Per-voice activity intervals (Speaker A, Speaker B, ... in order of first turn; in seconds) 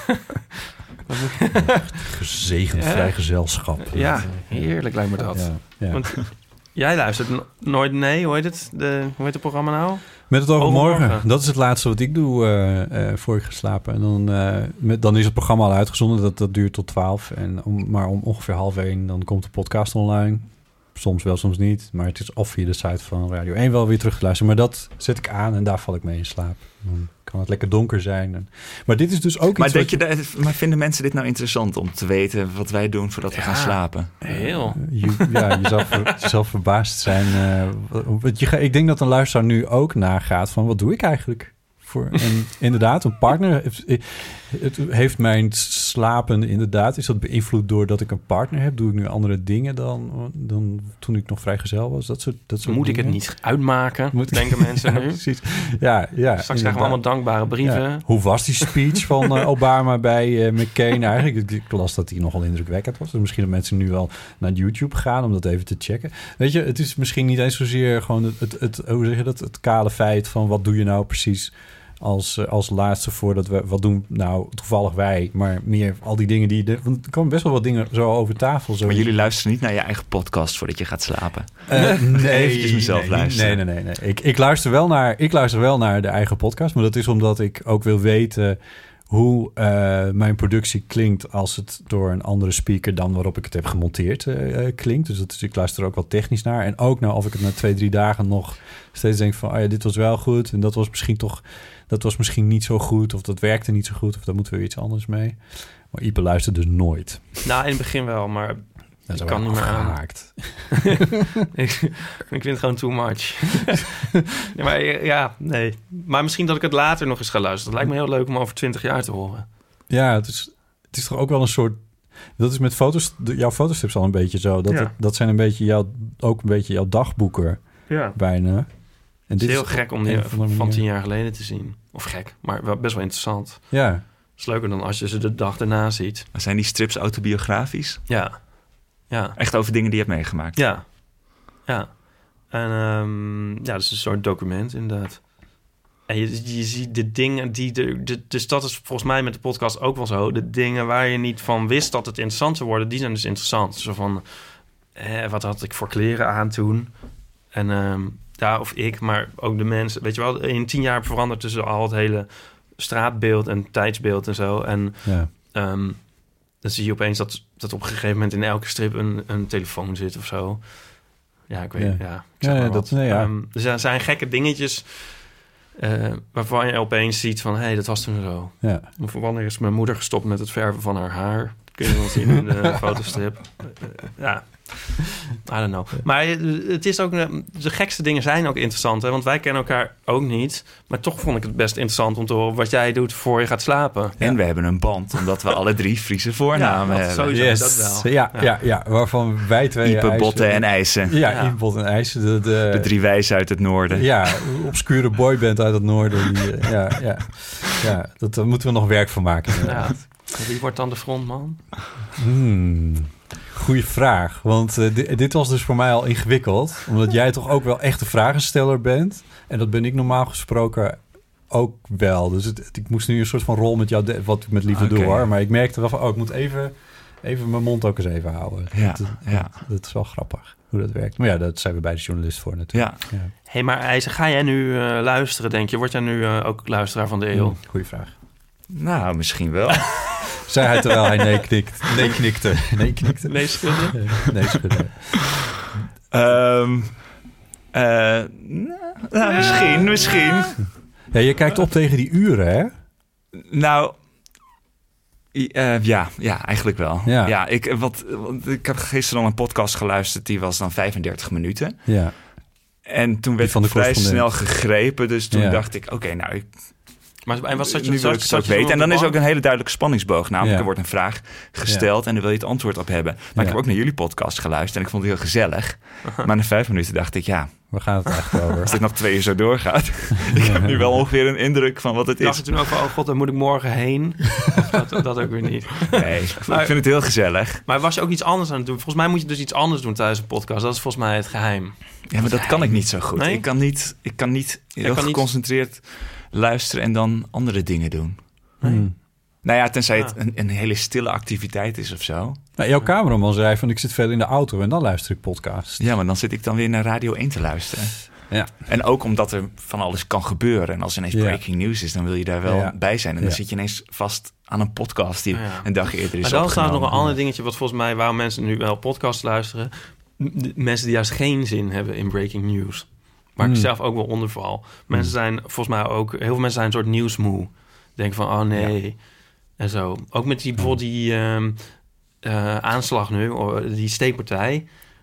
Speaker A: 1.1-2.0, 2.7-3.1, 3.8-11.3, 33.3-35.4, 52.6-55.2, 56.4-58.9, 107.4-110.4, 110.9-114.0, 114.5-119.5, 127.9-128.2, 129.4-133.8, 134.3-136.3, 138.1-139.4, 140.6-145.5, 146.1-154.2, 154.9-194.2, 196.5-198.5, 201.2-201.6, 209.6-211.6, 233.5-237.6, 243.2-244.1, 267.3-269.2, 282.2-286.8, 287.6-293.4, 294.8-295.3, 298.6-298.9, 315.3-334.7
Speaker B: 1.6-6.2, 10.3-30.0, 34.3-53.5, 54.1-79.1, 81.7-88.6, 89.1-107.4, 109.1-111.0, 119.9-121.8, 122.4-128.7, 129.2-130.8, 133.7-134.0, 165.1-165.3, 171.8-173.3, 178.6-178.9, 197.3-202.9, 203.9-210.0, 212.2-233.3, 237.3-238.1, 240.4-245.2, 251.1-252.7, 257.1-257.4, 261.9-262.1, 263.4-264.3, 265.3-265.6, 270.4-270.7, 277.7-278.8, 280.3-280.8, 298.6-298.9, 302.6-305.8, 311.1-311.4, 312.4-313.4, 316.9-317.2, 323.4-323.7
Speaker C: 29.6-34.1, 78.8-83.6, 136.3-138.0, 139.4-140.6, 194.2-197.6, 199.8-201.2, 202.7-204.3, 224.7-225.2, 228.7-229.6, 232.7-233.1, 238.7-240.3, 246.1-247.0, 247.7-250.7, 253.4-254.0, 255.3-261.9, 262.9-266.5, 267.6-282.6, 285.9-287.6, 292.1-298.2, 299.4-302.4, 305.8-317.0